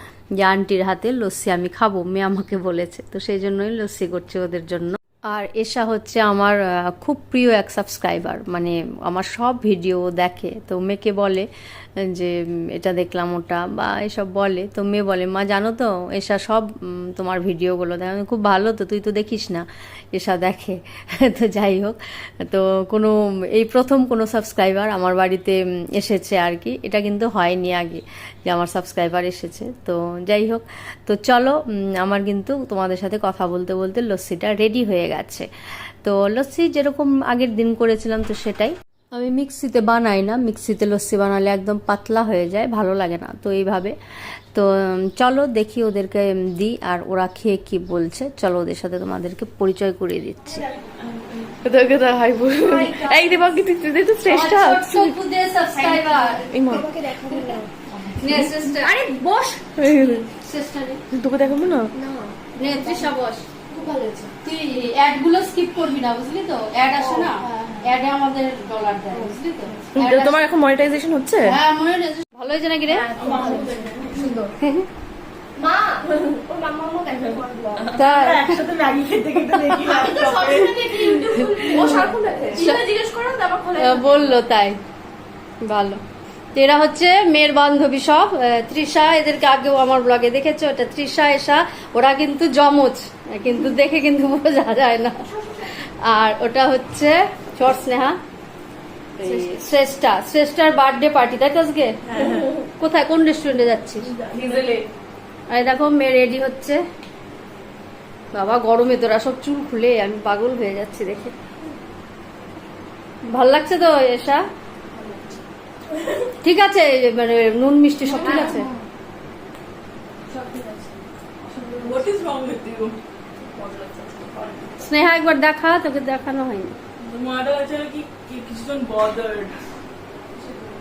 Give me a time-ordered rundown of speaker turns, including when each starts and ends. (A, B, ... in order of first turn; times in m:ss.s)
0:00.4-0:11.5 A
0:12.0-0:35.5 A
0:36.0-0:43.9 A
0:44.5-0:50.7 A
0:51.5-0:55.2 B
0:52.6-0:53.6 C
0:54.3-0:56.5 A
0:55.7-0:57.7 C
0:56.3-0:57.6 B
0:58.1-0:59.6 A
0:58.2-0:59.0 B
0:59.0-0:59.3 C
0:59.6-1:00.3 B
1:00.4-1:01.0 A
1:01.1-1:01.9 B
1:01.9-1:03.1 C
1:02.5-1:03.4 A
1:03.7-1:04.3 C
1:04.4-1:10.5 A
1:07.0-1:07.8 C
1:09.9-1:11.6 B
1:11.4-1:13.1 A
1:12.9-1:14.4 C
1:13.1-1:14.4 D
1:14.6-1:14.8 A
1:15.6-1:18.0 C
1:17.8-1:22.8 D
1:17.9-1:18.6 A
1:19.4-1:22.9 A
1:20.0-1:23.8 C
1:23.7-1:24.8 A
1:25.6-1:26.0 A
1:26.5-1:38.2 A
1:39.2-1:44.1 A
1:39.3-1:39.6 D
1:42.0-1:42.5 D
1:44.1-1:44.8 D
1:45.5-1:46.8 A
1:48.3-1:51.3 A
1:53.3-1:54.4 A
1:56.4-1:58.7 A
1:58.1-1:58.6 C
2:01.5-2:04.9 D
2:04.8-2:06.8 A
2:07.0-2:09.6 D